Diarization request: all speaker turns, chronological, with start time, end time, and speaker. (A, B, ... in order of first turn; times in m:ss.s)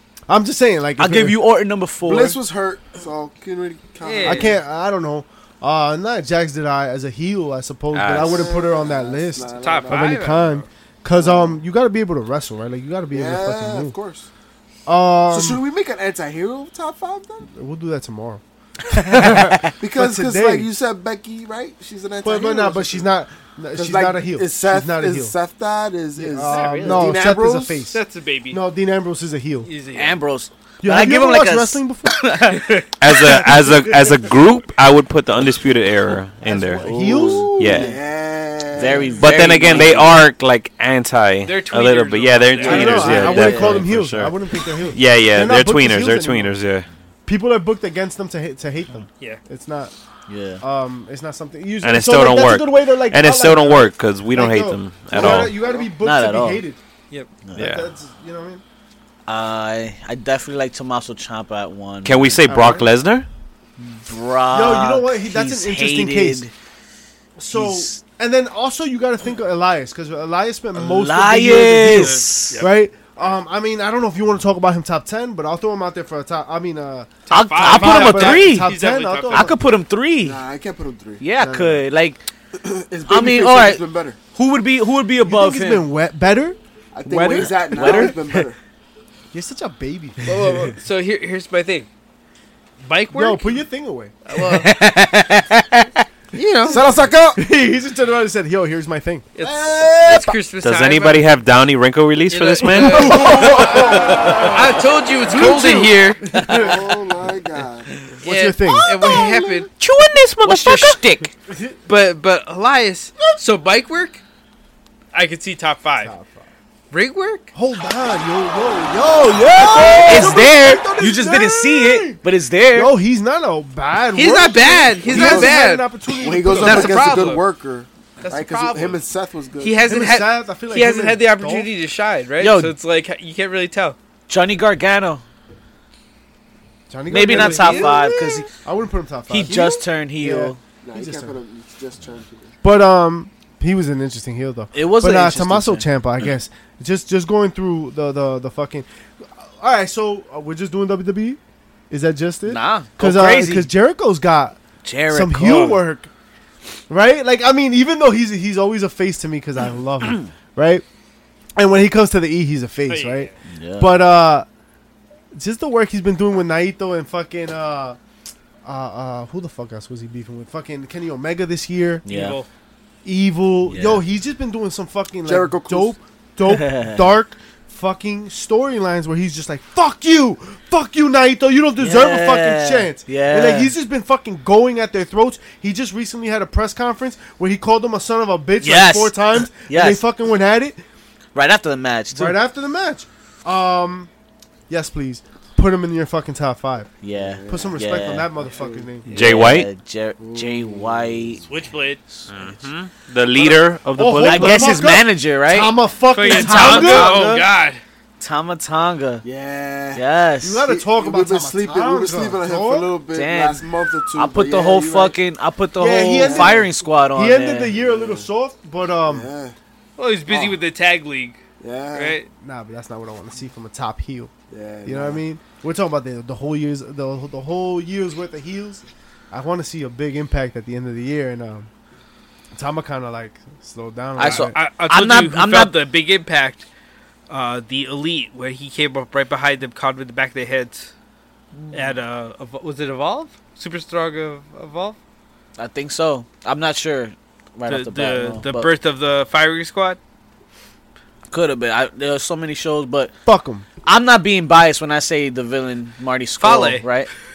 0:00.3-0:01.4 A
0:01.0-0:02.4 B
0:02.0-0:04.6 C
0:04.0-0:04.5 D
0:04.2-0:14.0 A
0:07.9-0:08.5 E
0:08.1-0:10.1 C
0:09.6-0:10.7 D
0:11.1-0:11.6 C
0:13.1-0:14.3 C
0:14.9-0:15.6 A
0:15.3-0:17.5 C
0:17.6-0:20.7 A
0:18.9-0:19.7 B
0:19.8-0:23.1 C
0:22.2-0:25.4 A
0:23.8-0:27.8 C
0:26.2-0:29.7 A
0:26.5-0:27.1 D
0:27.9-0:28.6 D
0:29.7-0:30.2 D
0:29.9-0:32.9 B
0:30.8-0:32.3 A
0:33.0-0:36.9 E
0:33.1-0:34.2 A
0:36.4-0:37.9 A
0:36.8-0:37.9 B
0:37.1-0:39.8 C
0:37.6-0:37.9 E
0:38.7-0:40.2 B
0:39.2-0:44.4 E
0:41.4-0:43.2 D
0:42.6-0:46.5 A
0:42.7-0:43.9 B
0:44.9-0:46.9 E
0:47.3-0:49.9 A
0:50.3-0:50.6 B
0:50.6-0:56.8 A
0:51.8-0:55.6 E
0:55.1-0:55.9 C
0:56.0-0:56.6 B
0:57.6-0:58.6 A
0:57.6-0:57.9 E
0:59.3-1:02.5 B
1:02.0-1:03.3 E
1:02.5-1:02.9 A
1:03.9-1:06.5 B
1:04.5-1:06.4 A
1:07.4-1:17.1 A
1:07.5-1:08.0 B
1:10.8-1:12.6 B
1:11.8-1:12.7 D
1:17.3-1:19.5 D
1:17.3-1:18.7 B
1:17.6-1:19.6 A
1:19.3-1:20.4 B
1:20.2-1:21.2 C
1:21.2-1:22.2 B
1:21.4-1:21.8 A
1:22.6-1:24.2 C
1:23.1-1:25.9 B
1:25.2-1:26.6 A
1:26.9-1:28.6 C
1:27.1-1:28.4 B
1:27.8-1:28.1 A
1:29.3-1:30.4 A
1:30.2-1:31.9 D
1:32.8-1:33.6 D
1:33.1-1:34.1 A
1:34.3-1:34.7 D
1:34.3-1:36.1 B
1:36.3-1:36.8 D
1:36.6-1:37.4 C
1:37.3-1:39.3 A
1:39.4-1:41.3 D
1:39.4-1:40.4 C
1:40.6-1:43.3 E
1:42.3-1:46.7 D
1:42.7-1:46.8 A
1:42.9-1:45.8 C
1:46.4-1:46.7 B
1:46.5-1:47.9 C
1:48.2-1:49.7 D
1:48.2-1:49.3 A
1:49.0-1:49.6 C
1:49.8-1:51.0 E
1:50.4-1:51.0 B
1:50.4-1:51.3 D
1:51.5-1:51.8 A
1:51.9-1:54.2 D
1:55.1-1:56.1 D
1:56.0-1:56.5 A
1:56.9-1:57.5 D
1:57.5-2:02.2 A
1:59.8-2:00.3 C
2:00.0-2:02.9 B
2:02.7-2:07.3 A
2:04.2-2:05.9 D
2:05.0-2:05.6 C
2:06.2-2:09.8 C
2:06.5-2:07.4 D
2:08.2-2:09.0 D
2:09.6-2:14.0 D
2:09.9-2:11.7 A
2:12.4-2:12.8 B
2:14.3-2:15.2 B
2:16.9-2:21.4 A
2:17.1-2:18.5 B
2:17.3-2:18.2 D
2:19.3-2:20.6 B
2:19.4-2:19.9 C
2:20.8-2:22.5 C
2:22.6-2:31.4 A
2:24.7-2:25.9 B
2:31.9-2:34.6 A
2:32.4-2:33.7 B
2:34.8-2:35.8 B
2:35.1-2:36.1 A
2:35.4-2:35.8 D
2:36.9-2:40.8 A
2:41.6-2:44.5 A
2:42.9-2:43.3 D
2:43.5-2:44.0 B
2:45.4-2:48.0 A
2:48.6-2:52.0 A
2:52.1-2:52.4 B
2:52.1-2:52.5 D
2:53.0-3:10.8 A
2:53.7-2:54.0 B
2:55.3-2:56.0 C
2:56.5-2:57.0 B
3:01.8-3:03.7 B
3:08.6-3:10.0 B
3:11.4-3:12.4 B
3:12.1-3:14.1 A
3:14.7-3:16.9 A
3:17.0-3:18.4 B
3:17.1-3:18.9 C
3:17.5-3:19.1 A
3:19.1-3:19.7 E
3:19.1-3:21.4 B
3:20.2-3:21.5 C
3:21.5-3:22.0 D
3:22.2-3:22.6 B
3:22.3-3:24.8 E
3:24.0-3:27.4 A
3:24.2-3:25.8 B
3:26.1-3:27.8 D
3:26.3-3:27.5 B
3:28.2-3:29.2 B
3:29.2-3:30.1 C
3:29.9-3:30.7 B
3:30.4-3:32.9 A
3:30.7-3:35.2 C
3:33.1-3:37.7 B
3:35.8-3:39.3 A
3:36.2-3:36.7 C
3:37.8-3:38.3 C
3:39.0-3:39.6 C
3:40.0-3:41.4 D
3:40.3-3:40.6 C
3:41.6-3:42.2 C
3:41.9-3:42.3 D
3:42.4-3:44.3 A
3:44.5-3:45.2 C
3:44.8-3:51.7 A
3:52.6-3:54.6 A
3:54.2-3:55.8 B
3:54.2-3:56.7 D
3:57.3-4:00.9 D
4:01.7-4:05.0 D
4:05.6-4:08.7 B
4:07.7-4:10.0 D
4:11.3-4:13.1 B
4:13.3-4:13.7 A
4:13.8-4:17.1 B
4:16.4-4:16.8 D